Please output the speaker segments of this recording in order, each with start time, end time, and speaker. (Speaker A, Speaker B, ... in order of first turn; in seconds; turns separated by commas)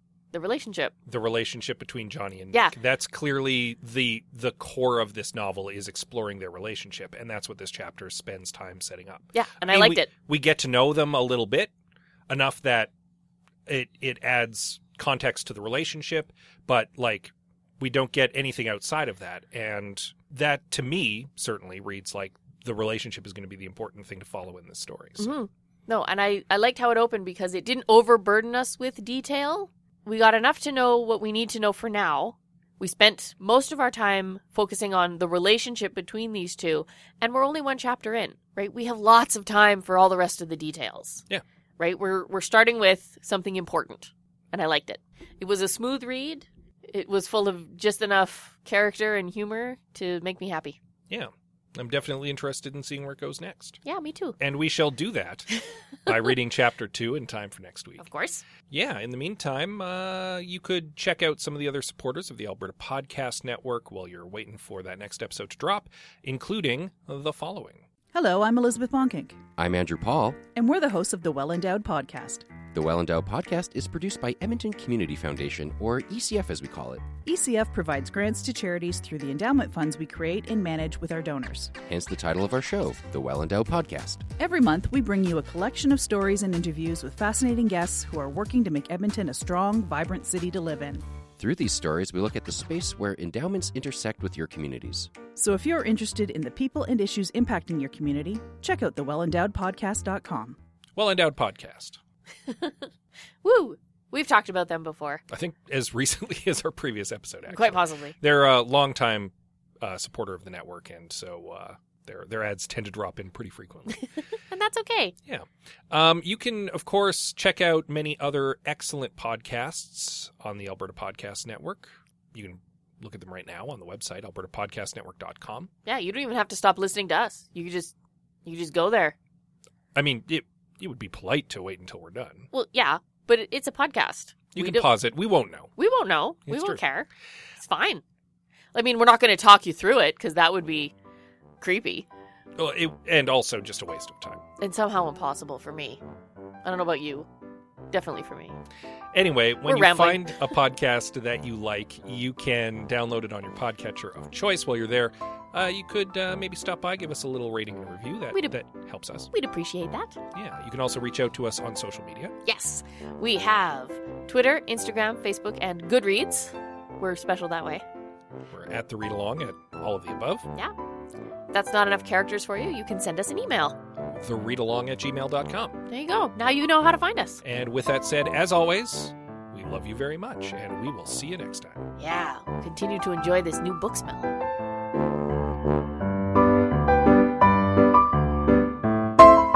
Speaker A: 0.3-0.9, Speaker B: 1.1-11.7, Speaker A: 9.3-10.1, Speaker B: 12.3-12.9, Speaker B: 13.7-25.3, Speaker A: 25.2-41.2, Speaker A: 41.8-50.8, Speaker B: 51.1-53.8, Speaker A: 53.9-54.4, Speaker B: 54.4-55.5, Speaker B: 56.1-58.1, Speaker A: 58.0-58.4, Speaker B: 58.7-67.8, Speaker C: 68.1-69.4, Speaker D: 69.6-70.4, Speaker C: 70.5-72.5, Speaker D: 72.7-77.1, Speaker C: 77.2-81.7, Speaker D: 81.9-84.2, Speaker C: 84.4-91.0, Speaker D: 91.4-95.1, Speaker C: 95.4-100.6, Speaker B: 101.0-102.0, Speaker A: 102.5-102.9, Speaker A: 103.4-105.2, Speaker B: 105.3-114.0, Speaker A: 107.5-108.2, Speaker A: 114.5-115.1, Speaker B: 115.3-125.7, Speaker A: 125.9-127.9, Speaker A: 128.4-129.2, Speaker B: 129.9-132.5, Speaker A: 132.5-134.9, Speaker B: 134.6-135.7, Speaker A: 135.8-137.1, Speaker B: 136.5-136.8, Speaker A: 137.6-138.0, Speaker A: 138.7-140.9, Speaker A: 141.6-142.1, Speaker B: 142.6-144.4, Speaker A: 144.6-146.0, Speaker A: 146.6-147.3, Speaker A: 147.9-148.6, Speaker B: 149.1-159.3, Speaker A: 149.7-150.5, Speaker A: 159.3-160.2, Speaker B: 160.3-162.3, Speaker A: 162.4-167.8, Speaker B: 168.5-170.5, Speaker A: 171.5-173.8, Speaker B: 174.1-175.8, Speaker A: 175.9-177.4, Speaker B: 177.4-181.9, Speaker A: 182.0-184.3